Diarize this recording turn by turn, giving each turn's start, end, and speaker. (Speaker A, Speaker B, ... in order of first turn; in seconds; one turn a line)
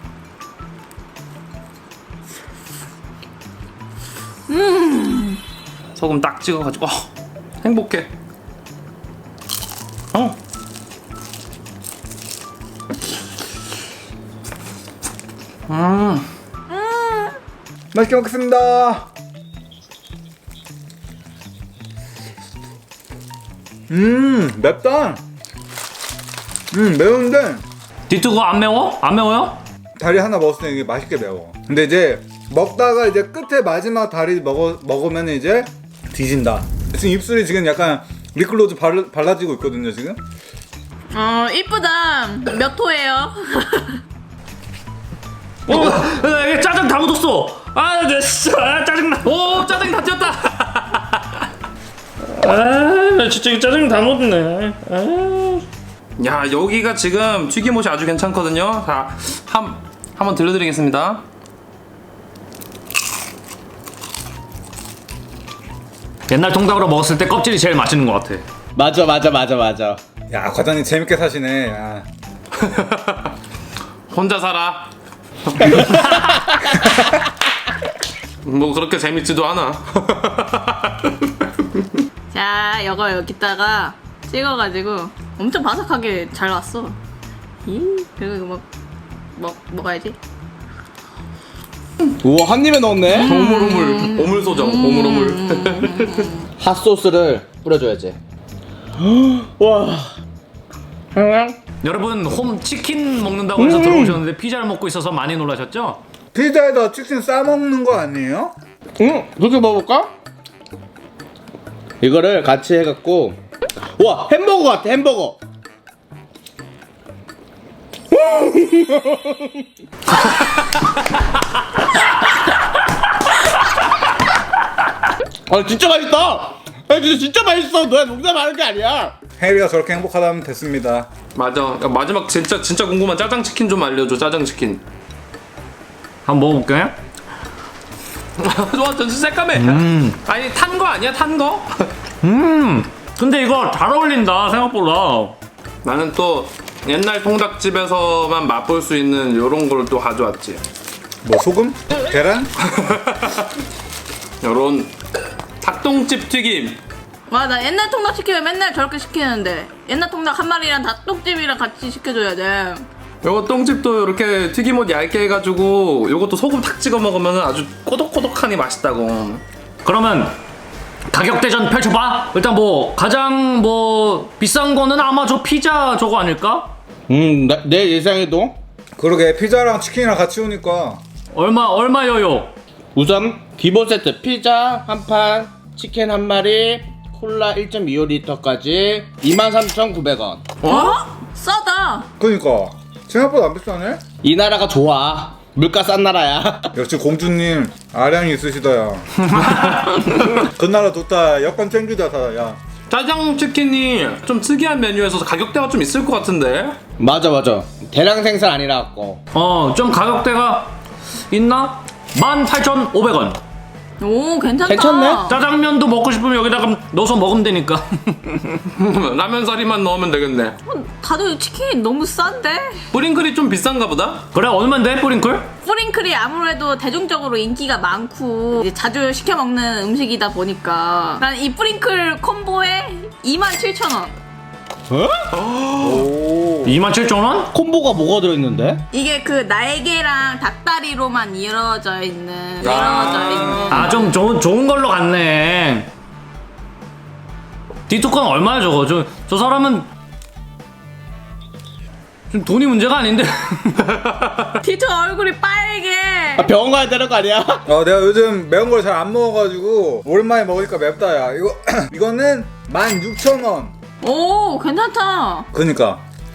Speaker A: 4.5-5.4
Speaker B: 6.0-7.1
Speaker B: 7.6-8.1
Speaker B: 10.1-10.4
Speaker B: 15.7-16.3
Speaker A: 16.7-17.4
Speaker C: 17.9-19.1
Speaker C: 23.9-25.2
Speaker C: 26.7-27.6
Speaker D: 28.1-29.6
Speaker C: 30.0-40.2
Speaker A: 41.1-44.0
Speaker D: 45.7-49.8
Speaker B: 49.2-51.0
Speaker D: 52.2-55.6
Speaker B: 56.2-61.2
Speaker D: 66.3-68.4
Speaker E: 68.8-70.0
Speaker C: 70.3-72.1
Speaker B: 72.6-73.3
Speaker B: 74.1-74.9
Speaker B: 75.4-76.2
Speaker D: 76.0-76.3
Speaker B: 78.4-81.8
Speaker A: 82.3-87.0
Speaker A: 87.7-88.6
Speaker A: 89.3-90.2
Speaker E: 92.2-93.3
Speaker A: 93.1-96.5
Speaker B: 93.1-96.2
Speaker E: 96.6-98.2
Speaker E: 99.0-100.1
Speaker E: 101.1-101.6
Speaker D: 101.8-106.0
Speaker E: 103.5-104.2
Speaker C: 106.3-108.5
Speaker E: 109.0-110.1
Speaker E: 112.0-115.4
Speaker E: 118.1-119.6
Speaker E: 125.5-129.2
Speaker C: 129.4-131.1
Speaker B: 131.3-134.8
Speaker D: 136.2-136.9
Speaker B: 138.4-141.9
Speaker D: 139.6-140.2
Speaker D: 142.2-145.4
Speaker B: 145.8-150.6
Speaker C: 151.2-152.5
Speaker B: 152.8-153.5
Speaker B: 154.4-154.9
Speaker B: 155.6-156.8
Speaker A: 157.3-162.9
Speaker B: 163.2-169.4
Speaker D: 169.8-170.3
Speaker D: 171.1-176.7
Speaker E: 177.1-178.6
Speaker C: 179.0-181.0
Speaker D: 181.3-182.5
Speaker E: 182.9-190.5
Speaker B: 190.6-191.0
Speaker A: 190.6-192.1
Speaker C: 192.2-194.0
Speaker E: 194.2-196.8
Speaker C: 196.7-199.2
Speaker B: 199.4-200.3
Speaker C: 200.4-202.6
Speaker B: 202.9-206.8
Speaker E: 207.0-209.2
Speaker D: 209.3-210.8
Speaker D: 211.3-213.4
Speaker A: 214.0-215.4
Speaker E: 214.6-215.3
Speaker D: 215.3-218.6
Speaker B: 218.7-220.6
Speaker A: 220.7-222.8
Speaker B: 222.9-224.2
Speaker D: 224.3-225.5
Speaker A: 225.6-234.2
Speaker E: 234.9-235.3
Speaker B: 235.4-235.9
Speaker C: 235.8-236.8
Speaker D: 236.6-237.5
Speaker E: 237.5-238.8
Speaker A: 238.9-243.9
Speaker C: 242.6-243.8
Speaker D: 243.7-245.9
Speaker D: 247.9-249.9
Speaker D: 252.3-253.9
Speaker B: 254.0-254.3
Speaker A: 254.6-256.5
Speaker E: 256.4-257.6
Speaker C: 257.6-263.7
Speaker A: 264.0-265.5
Speaker C: 265.5-266.0